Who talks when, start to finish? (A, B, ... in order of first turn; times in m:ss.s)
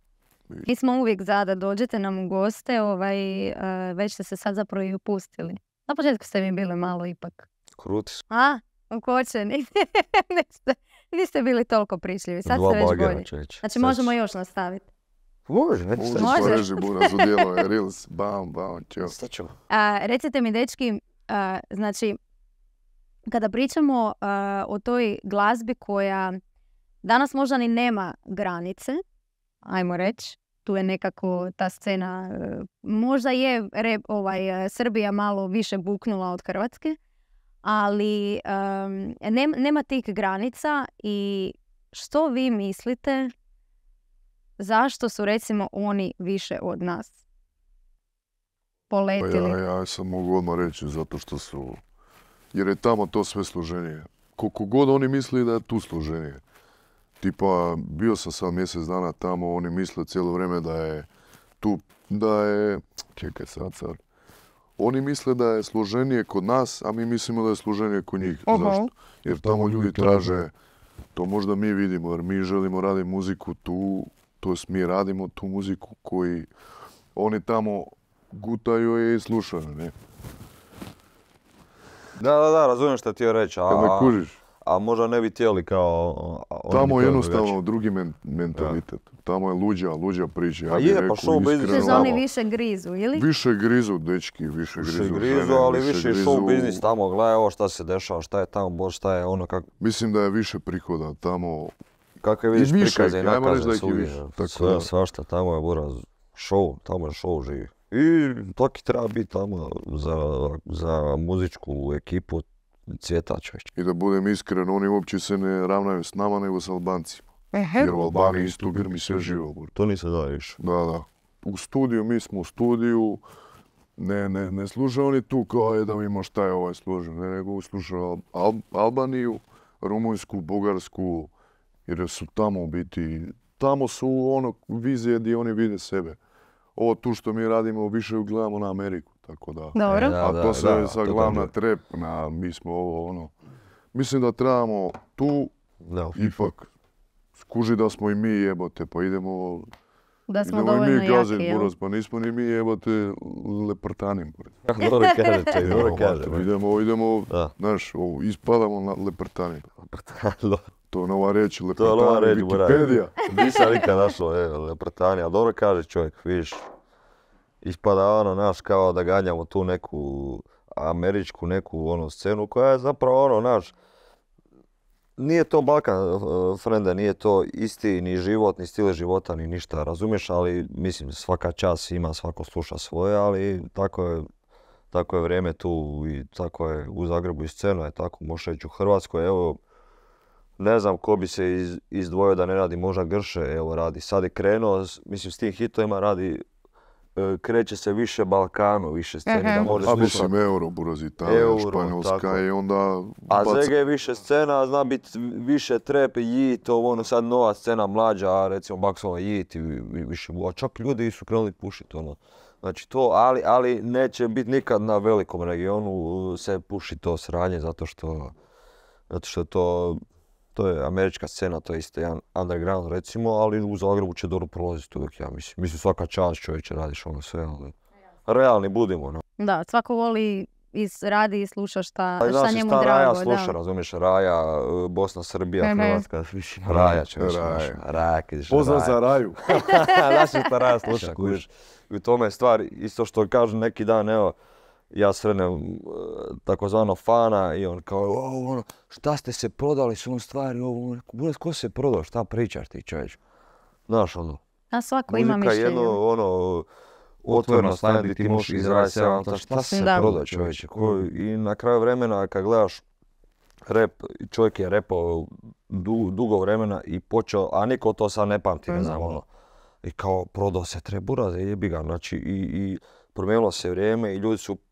0:00.6-0:07.5 A
0:07.8-0:08.2 B
0:08.3-0:14.9 A
0:12.4-0:14.1 B
0:15.5-0:16.6 B
0:15.9-0:19.2 C
0:16.2-0:17.4 A
0:19.0-0:19.5 B
0:19.7-0:22.2 A
0:23.3-0:26.4 A
0:27.0-0:29.0 A
0:29.6-0:37.0 A
0:37.6-0:43.3 A
0:44.6-0:47.2 A
0:48.9-0:49.6 A
0:49.2-0:51.8 C
0:52.5-0:56.4 C
0:57.2-1:01.1 C
1:01.6-1:04.0 C
1:04.8-1:10.5 C
1:11.1-1:16.5 C
1:17.1-1:19.9 C
1:22.2-1:27.6 B
1:23.7-1:24.4 C
1:26.7-1:32.2 C
1:28.5-1:28.8 B
1:30.7-1:32.2 B
1:31.7-1:33.2 A
1:33.1-1:36.8 C
1:34.8-1:39.7 B
1:39.8-1:41.7 C
1:42.2-1:53.7 B
1:42.5-1:44.9 C
1:53.8-1:59.7 C
1:57.8-2:00.6 B
2:00.6-2:03.2 C
2:04.0-2:11.3 C
2:11.8-2:16.2 C
2:16.7-2:23.3 C
2:19.7-2:20.2 A
2:19.9-2:21.5 B
2:23.9-2:25.5 C
2:25.8-2:26.4 B
2:26.1-2:26.7 C
2:27.4-2:29.7 C
2:30.3-2:31.7 A
2:30.4-2:34.6 C
2:34.6-2:36.5 B
2:34.8-2:35.5 A
2:35.6-2:39.7 C
2:39.8-2:40.6 B
2:40.9-2:43.2 C
2:41.8-2:46.6 B
2:43.4-2:43.7 A
2:47.6-2:53.7 B
2:55.2-3:04.3 B
3:04.9-3:09.6 B
3:10.6-3:16.4 B
3:17.2-3:20.3 B
3:19.5-3:23.7 C
3:21.2-3:22.4 B
3:23.3-3:38.3 B
3:39.1-3:40.0 B
3:40.5-3:47.7 B
3:48.3-3:49.2 B
3:49.4-3:53.6 A
3:52.2-4:04.4 B
3:55.6-3:56.0 A
3:56.7-3:57.8 C
3:58.5-3:59.4 C
3:59.8-4:00.4 A
4:00.8-4:01.4 C
4:04.9-4:13.2 B
4:13.9-4:14.4 B
4:14.7-4:16.0 A
4:15.1-4:16.7 B
4:17.2-4:22.8 B
4:17.3-4:18.7 C
4:19.7-4:20.1 A
4:20.0-4:20.5 C
4:23.6-4:29.2 B
4:29.8-4:34.6 B